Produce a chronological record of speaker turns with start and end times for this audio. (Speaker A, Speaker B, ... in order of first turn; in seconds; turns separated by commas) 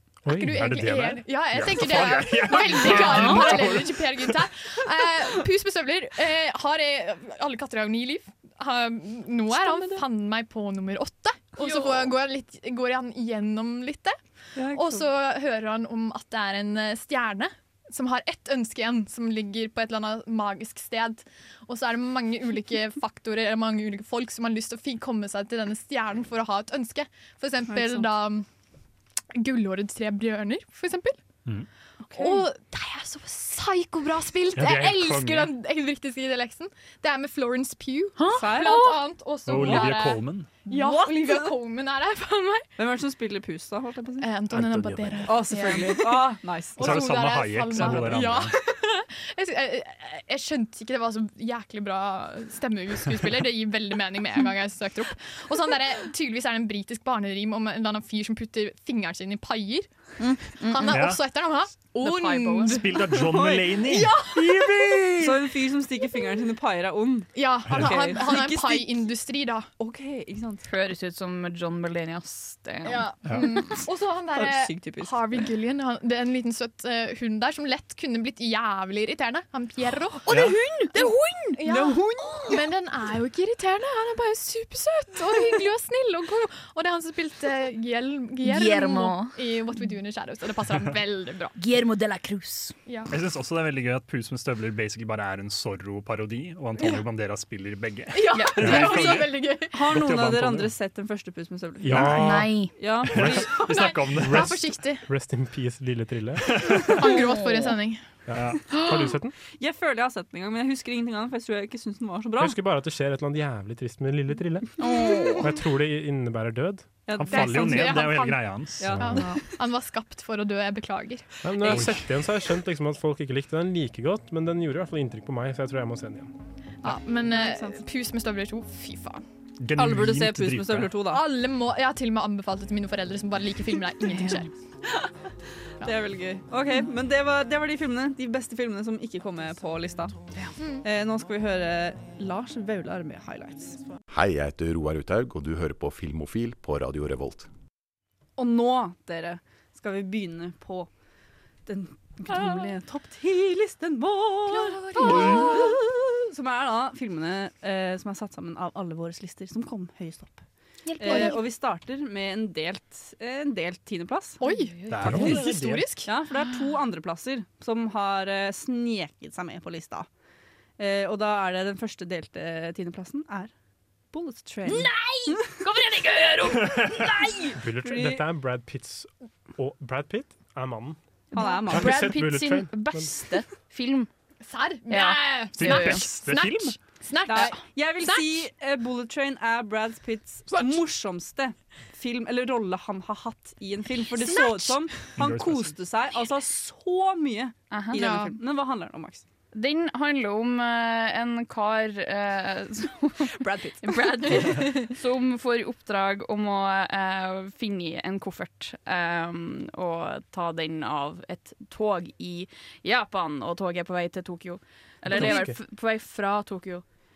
Speaker A: 0.3-0.6, Speaker B: 0.3-14.2, Speaker C: 0.3-4.4, Speaker D: 9.5-10.0, Speaker D: 11.6-12.1, Speaker D: 14.6-15.1, Speaker B: 14.7-28.4, Speaker D: 27.7-28.1, Speaker B: 29.3-31.2, Speaker D: 32.1-32.5, Speaker B: 32.1-42.7, Speaker C: 34.5-35.5, Speaker E: 38.2-39.0, Speaker D: 38.3-38.9, Speaker C: 39.5-40.5, Speaker D: 39.5-39.9, Speaker D: 40.7-41.5, Speaker D: 42.8-44.3, Speaker B: 44.2-59.9, Speaker C: 44.5-45.4, Speaker D: 45.2-48.2, Speaker C: 46.8-48.5, Speaker E: 60.2-61.0, Speaker B: 60.5-63.2, Speaker C: 60.9-61.2, Speaker E: 62.0-62.8, Speaker C: 62.6-65.4, Speaker D: 63.1-63.8, Speaker B: 63.8-65.1, Speaker D: 65.2-69.0, Speaker B: 67.3-69.7, Speaker C: 67.7-68.1, Speaker D: 69.8-70.7, Speaker E: 70.7-73.8, Speaker B: 72.8-91.6, Speaker D: 74.3-75.4, Speaker C: 80.3-80.5, Speaker E: 80.3-81.6, Speaker D: 81.6-82.5, Speaker E: 88.4-89.4, Speaker E: 91.6-92.8, Speaker B: 92.8-93.1, Speaker C: 93.1-100.7, Speaker B: 98.1-99.9, Speaker E: 98.3-98.9, Speaker D: 98.6-103.9, Speaker A: 101.8-102.5, Speaker E: 101.9-102.7, Speaker C: 103.1-104.8, Speaker B: 103.4-105.1, Speaker A: 105.0-106.6, Speaker C: 106.5-107.1, Speaker B: 106.8-108.0, Speaker E: 107.0-107.7, Speaker A: 108.3-109.3, Speaker C: 108.3-108.6, Speaker E: 108.8-109.1, Speaker D: 109.6-112.6, Speaker A: 112.4-114.8, Speaker E: 114.8-115.5, Speaker A: 115.4-116.9, Speaker D: 117.0-118.2, Speaker C: 117.2-119.2, Speaker B: 117.3-121.4, Speaker D: 118.8-119.4, Speaker A: 121.4-126.3, Speaker C: 121.7-122.0, Speaker B: 126.8-129.2, Speaker D: 127.2-127.8, Speaker C: 129.6-130.9, Speaker D: 129.8-131.2, Speaker B: 131.1-134.5, Speaker D: 135.8-140.2, Speaker D: 140.8-143.8, Speaker F: 144.1-147.5, Speaker D: 148.4-150.9, Speaker D: 151.7-160.4, Speaker B: 154.5-155.7, Speaker E: 155.0-155.4, Speaker E: 160.9-161.4, Speaker D: 161.0-164.4, Speaker B: 161.0-161.4, Speaker B: 164.4-166.1, Speaker E: 164.4-165.1, Speaker C: 164.9-165.9, Speaker D: 165.0-165.5, Speaker D: 166.0-170.1, Speaker D: 170.8-173.5, Speaker D: 174.1-175.4, Speaker E: 174.6-177.4, Speaker D: 177.0-178.2, Speaker A: 177.5-181.0, Speaker D: 181.3-182.1, Speaker E: 181.3-184.1, Speaker B: 181.4-181.7, Speaker A: 181.7-183.1, Speaker B: 184.4-188.4, Speaker E: 184.9-186.1, Speaker C: 185.5-186.7, Speaker D: 187.3-199.2, Speaker C: 195.2-195.7, Speaker E: 197.7-198.2, Speaker B: 197.9-198.3, Speaker E: 199.5-216.8, Speaker D: 203.3-204.7, Speaker A: 215.1-215.6